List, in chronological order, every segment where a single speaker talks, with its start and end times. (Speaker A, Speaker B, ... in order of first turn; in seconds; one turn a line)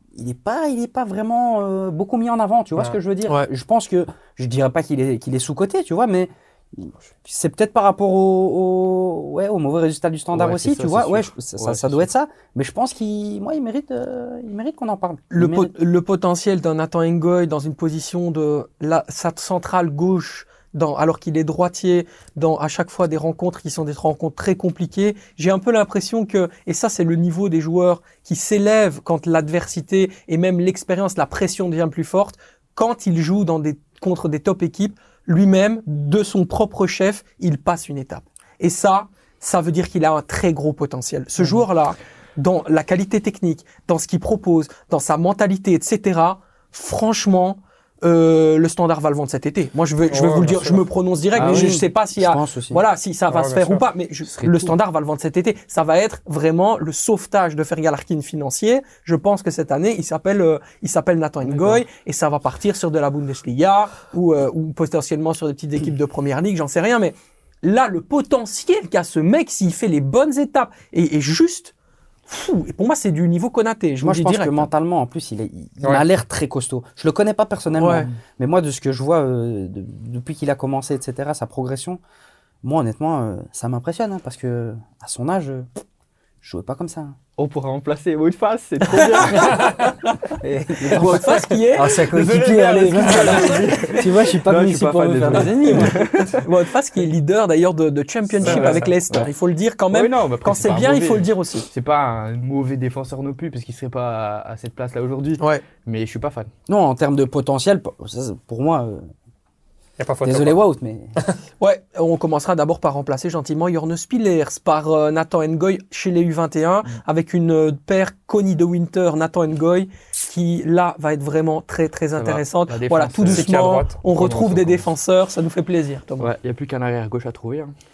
Speaker A: 0.1-15.7
Speaker B: 10.3-12.1
Speaker C: 15.3-71.7
Speaker D: 50.1-50.9
Speaker B: 51.4-51.8
Speaker A: 51.4-52.8
Speaker D: 53.3-53.9
Speaker B: 54.3-54.8
Speaker B: 61.4-61.8
Speaker C: 72.3-74.7
Speaker A: 74.0-82.0
Speaker C: 77.8-78.1
Speaker A: 82.6-85.7
Speaker A: 86.4-87.2
Speaker B: 87.4-89.9
Speaker C: 88.9-89.7
Speaker A: 90.4-96.0
Speaker C: 90.8-93.9
Speaker B: 93.0-96.4
Speaker C: 95.3-101.7
Speaker D: 98.4-98.9
Speaker B: 98.4-99.3
Speaker B: 99.9-106.5
Speaker C: 105.4-105.6
Speaker A: 106.7-109.1
Speaker D: 110.0-110.6
Speaker A: 110.2-111.2
Speaker C: 111.6-126.3
Speaker B: 122.2-123.7
Speaker D: 123.2-124.6
Speaker B: 124.2-124.8
Speaker B: 126.2-127.7